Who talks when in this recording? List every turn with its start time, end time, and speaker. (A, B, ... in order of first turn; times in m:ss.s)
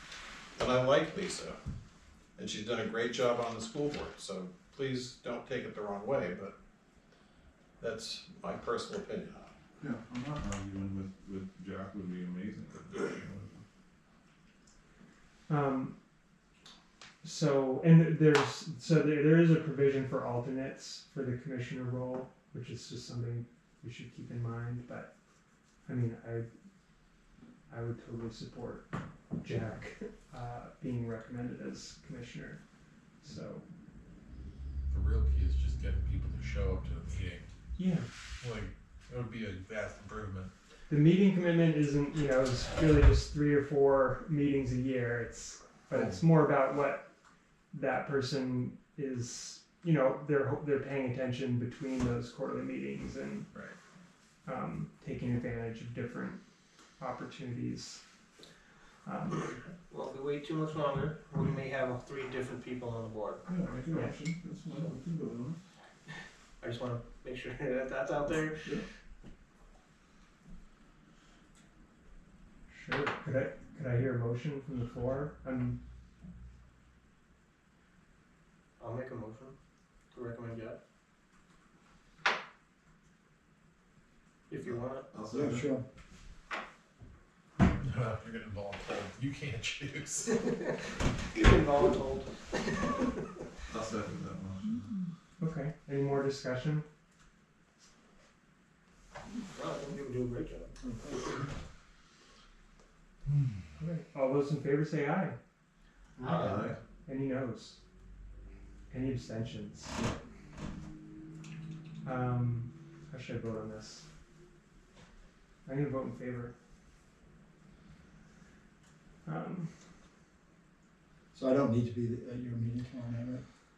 0:00.6-0:01.6 A
0:02.4-0:06.5 A
0:07.8-0:09.5 A
0:09.8-0:13.6 B
0:15.5-0:15.9 C
0:17.2-0:25.1 C
0:25.8-0:26.5 C
0:27.7-0:28.9 C
0:29.4-0:32.6 C
0:33.2-0:33.6 C
0:34.9-0:37.5 D
0:37.8-0:38.1 C
0:38.4-0:40.5 D
0:40.9-0:47.0 C
0:47.7-0:53.5 C
0:54.4-0:56.4 C
0:57.0-0:58.0 C
0:59.0-0:59.6 C
0:59.9-1:03.4 E
1:03.4-1:05.6 B
1:06.6-1:08.8 E
1:12.7-1:15.8 C
1:18.8-1:19.6 E
1:20.1-1:20.8 E
1:24.5-1:25.1 E
1:25.1-1:25.7 B
1:25.3-1:25.8 F
1:27.6-1:30.4 D
1:30.4-1:30.7 E
1:31.3-1:33.2 E
1:33.7-1:34.9 B
1:35.4-1:36.8 C
1:39.3-1:40.8 E
1:40.8-1:41.5 F
1:43.8-1:45.4 C
1:46.2-1:46.8 B
1:46.2-1:46.7 E
1:47.0-1:47.8 C
1:48.9-1:50.0 C
1:52.0-1:54.0 C
1:55.6-1:56.5 C
1:59.2-1:59.7 C
2:01.3-2:03.4 F